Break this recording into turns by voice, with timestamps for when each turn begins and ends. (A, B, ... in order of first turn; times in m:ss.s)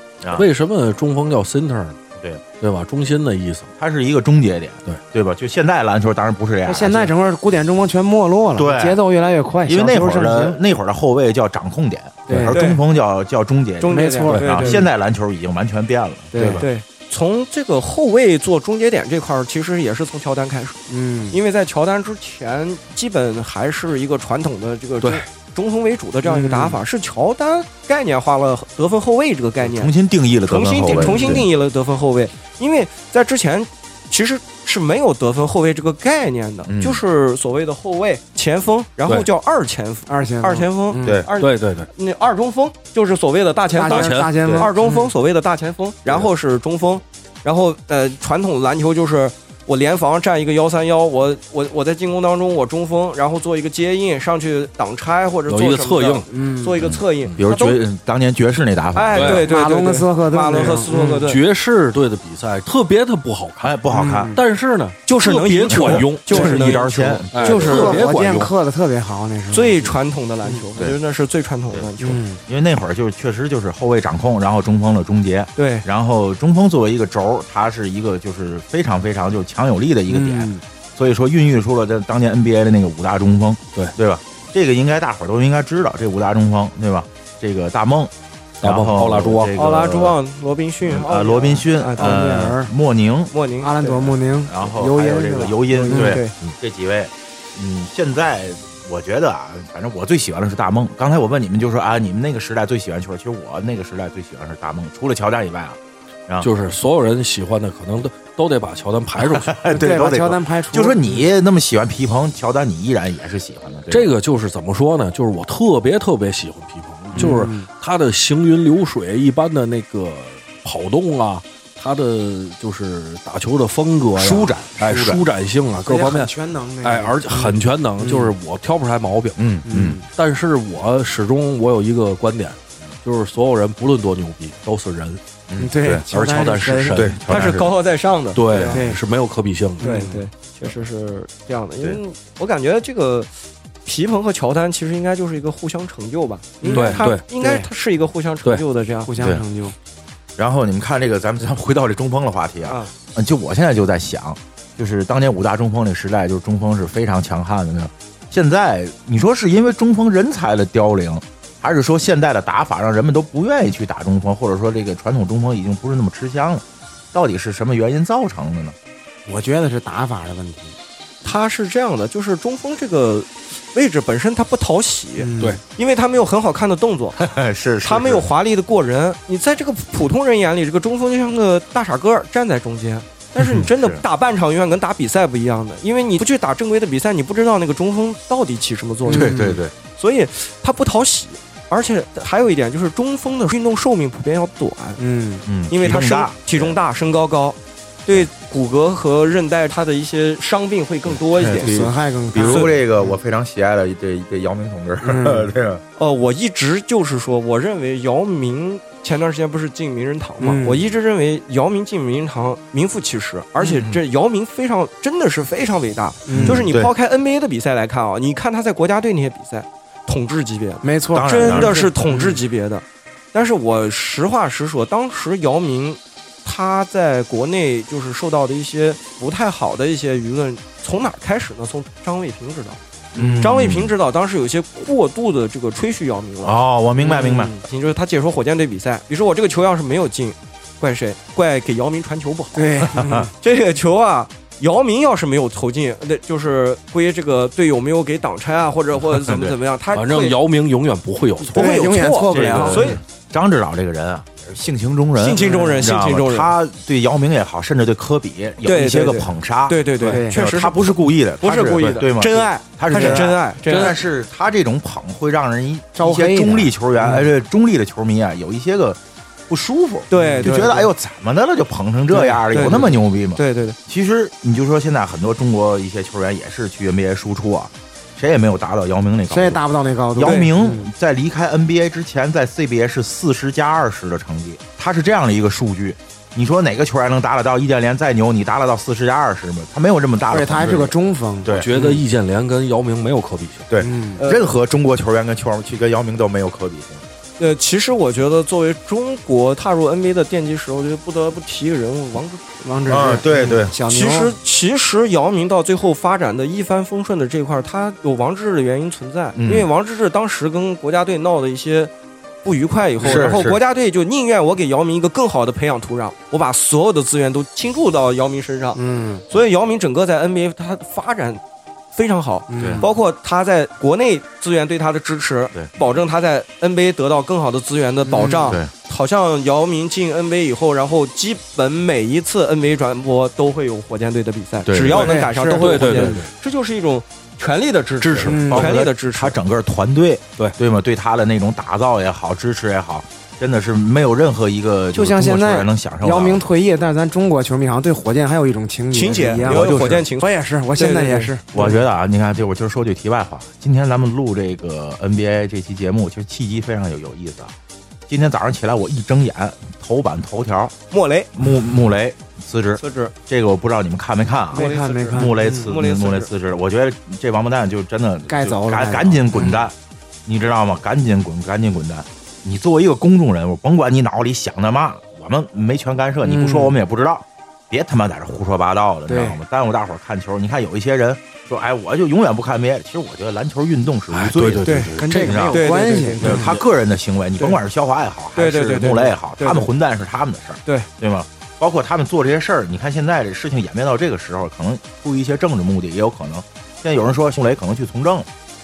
0:00.2-0:00.5 A
0:00.3-0:02.0 B
0:02.6-0:03.7 B
0:03.8-0:07.1 A
0:06.7-0:10.6 C
0:08.6-0:09.0 A
0:09.7-0:16.6 A
0:12.3-0:12.6 C
0:12.5-0:12.8 D
0:13.8-0:14.8 D
0:13.9-0:14.8 C
0:16.3-0:16.7 C
0:16.6-0:20.8 D
0:20.9-0:21.4 C
0:21.3-0:29.9 D
0:26.2-0:26.8 C
0:29.7-0:31.5 A
0:30.5-0:57.8 D
0:31.0-0:31.4 C
0:36.7-0:37.0 A
0:40.1-0:41.2 C
0:41.4-0:41.9 B
0:43.7-0:45.1 C
0:43.9-0:44.5 B
0:55.5-0:56.3 B
0:56.3-0:56.8 C
0:56.8-0:59.4 A
0:59.0-1:01.4 D
0:59.2-0:59.4 B
0:59.3-1:01.2 C
1:01.2-1:03.8 B
1:03.6-1:04.3 A
1:03.9-1:04.4 C
1:04.4-1:06.7 B
1:05.0-1:08.0 D
1:05.7-1:08.0 A
1:07.3-1:08.5 B
1:07.4-1:09.8 C
1:09.5-1:12.2 D
1:12.0-1:12.4 C
1:12.4-1:30.2 A
1:15.6-1:15.8 D
1:20.1-1:20.6 C
1:28.6-1:29.5 B
1:29.5-1:32.2 D
1:30.8-1:33.3 A
1:32.0-1:32.7 C
1:33.3-1:34.0 D
1:33.6-1:36.2 C
1:34.4-1:46.5 A
1:35.9-1:36.3 D
1:46.4-1:49.6 B
1:49.2-1:54.1 A
1:49.7-1:51.2 C
1:53.9-2:09.5 B
1:57.2-1:57.7 C
2:04.2-2:05.2 A
2:05.8-2:08.3 C
2:09.4-2:10.0 A
2:09.7-2:10.0 C
2:10.1-2:15.2 B
2:15.5-2:16.0 A
2:15.6-2:17.1 C
2:16.1-2:17.6 B
2:16.9-2:17.7 A
2:17.3-2:18.8 D
2:18.4-2:20.0 B
2:18.7-2:19.0 C
2:19.8-2:20.2 C
2:19.8-2:23.3 D
2:23.9-2:29.1 D
2:26.6-2:27.7 C
2:26.7-2:27.2 B
2:29.0-2:29.7 C
2:29.2-2:29.4 A
2:30.4-2:48.8 A
2:32.6-2:32.9 D
2:49.2-2:50.8 C
2:51.2-2:57.2 D
2:55.2-2:55.6 C
2:57.2-2:58.2 A
2:57.8-3:09.3 D
3:03.4-3:04.0 A
3:09.0-3:09.6 C
3:09.1-3:09.7 A
3:10.0-3:15.0 D
3:15.0-3:15.5 C
3:15.5-3:16.8 A
3:15.7-3:22.7 D
3:21.1-3:25.8 A
3:21.6-3:22.7 C
3:25.0-3:25.5 C
3:26.0-3:52.8 D
3:30.4-3:30.8 C
3:33.6-3:34.0 A
3:36.2-3:36.7 C
3:36.3-3:36.9 A
3:40.8-3:42.4 C
3:41.1-3:41.8 A
3:53.1-3:53.9 A
3:53.2-3:53.5 C
3:53.4-3:56.5 D
3:56.4-3:57.5 A
3:57.0-3:57.5 C
3:57.1-4:10.4 D
4:02.5-4:03.3 C
4:03.0-4:03.3 A
4:09.1-4:09.5 A
4:09.9-4:11.7 B
4:11.5-4:13.0 D
4:11.5-4:13.0 C
4:12.3-4:19.8 A
4:15.2-4:16.5 D
4:15.4-4:15.8 C
4:18.6-4:24.0 D
4:20.1-4:20.4 C
4:20.3-4:39.6 A
4:22.9-4:23.2 C
4:23.7-4:24.0 B
4:26.0-4:27.3 C
4:30.1-4:30.9 D
4:30.1-4:30.8 C
4:32.1-4:33.8 D
4:32.6-4:32.9 C
4:39.3-4:40.9 C
4:40.1-4:51.7 A
4:40.2-4:40.5 D
4:50.3-4:52.0 C
4:51.5-4:53.7 B
4:53.7-4:57.0 A
4:53.8-4:54.2 C
4:54.2-4:54.5 D
4:57.4-5:02.6 D
5:02.6-5:04.4 C
5:02.9-5:03.7 A
5:03.9-5:11.9 D
5:09.4-5:09.7 A
5:12.4-5:18.8 D
5:13.0-5:13.6 A
5:18.8-5:19.2 C
5:19.3-5:21.4 D
5:21.9-5:39.4 D
5:22.5-5:22.9 C
5:22.6-5:22.8 A
5:28.0-5:28.6 C
5:34.6-5:35.2 A
5:34.9-5:36.2 C
5:35.5-5:36.3 B
5:38.0-5:38.5 B
5:38.3-5:38.8 C
5:38.4-5:46.4 A
5:44.9-5:51.7 C
5:48.9-5:51.8 D
5:49.1-5:50.0 A
5:51.5-5:57.5 A
5:58.1-6:00.8 A
6:00.9-6:01.3 D
6:01.4-6:09.7 A
6:02.8-6:03.1 D
6:04.5-6:05.7 C
6:04.5-6:06.3 D
6:08.3-6:09.6 C
6:10.2-6:25.6 A
6:16.2-6:16.8 C
6:19.1-6:19.4 C
6:24.1-6:25.0 B
6:24.6-6:26.5 D
6:25.0-6:26.5 C
6:26.2-6:38.3 A
6:28.4-6:29.7 D